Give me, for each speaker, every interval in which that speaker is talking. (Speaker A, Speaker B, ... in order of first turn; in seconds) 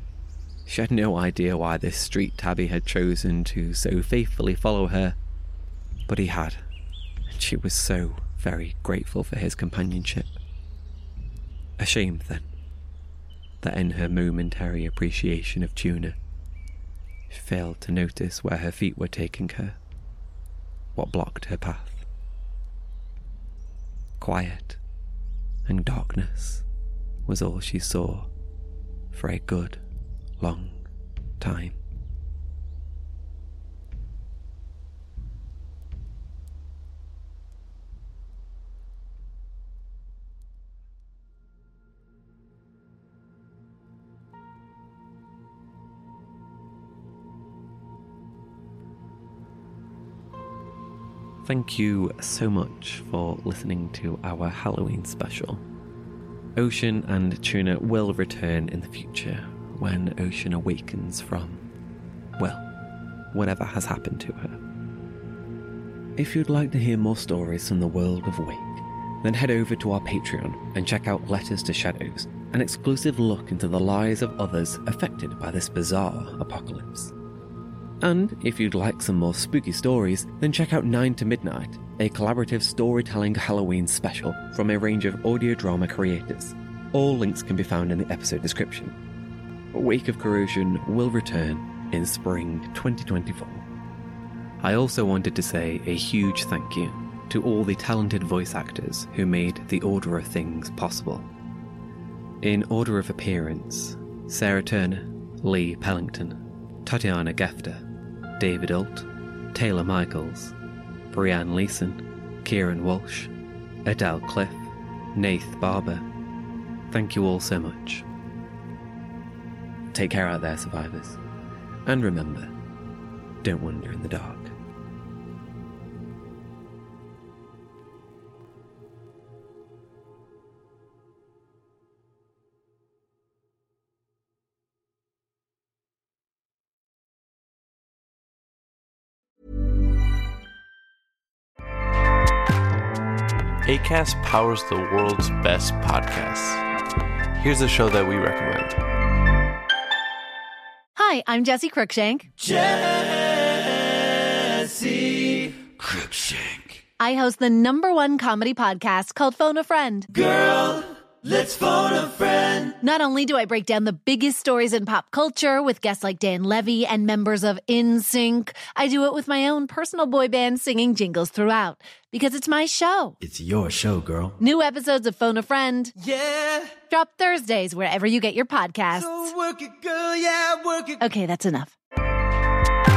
Speaker A: 0.7-5.2, 6.1-6.7, 7.3-10.4, 11.8-12.5, 13.6-16.2, 17.3-19.8, 20.9-22.1, 24.2-24.8, 25.7-26.6, 27.3-28.3, 29.1-29.8, 30.4-30.9, 31.4-31.8, 51.4-55.6, 56.6-61.7, 62.4-62.7, 63.3-64.6, 66.2-77.1, 78.0-89.0, 89.7-93.7, 94.6-101.3, 102.4-107.8, 108.4-110.5, 111.1-113.3, 113.8-116.1, 116.9-118.0, 119.9-121.2, 121.9-122.5, 123.4-124.5
Speaker B: 143.6-146.6, 147.4-148.8
Speaker C: 151.0-152.3, 157.0-160.1, 162.8-173.2, 174.4-175.9, 176.9-179.3, 181.0-181.8
Speaker D: 152.4-156.8, 160.1-162.8, 173.2-174.4, 176.0-176.8, 178.9-181.1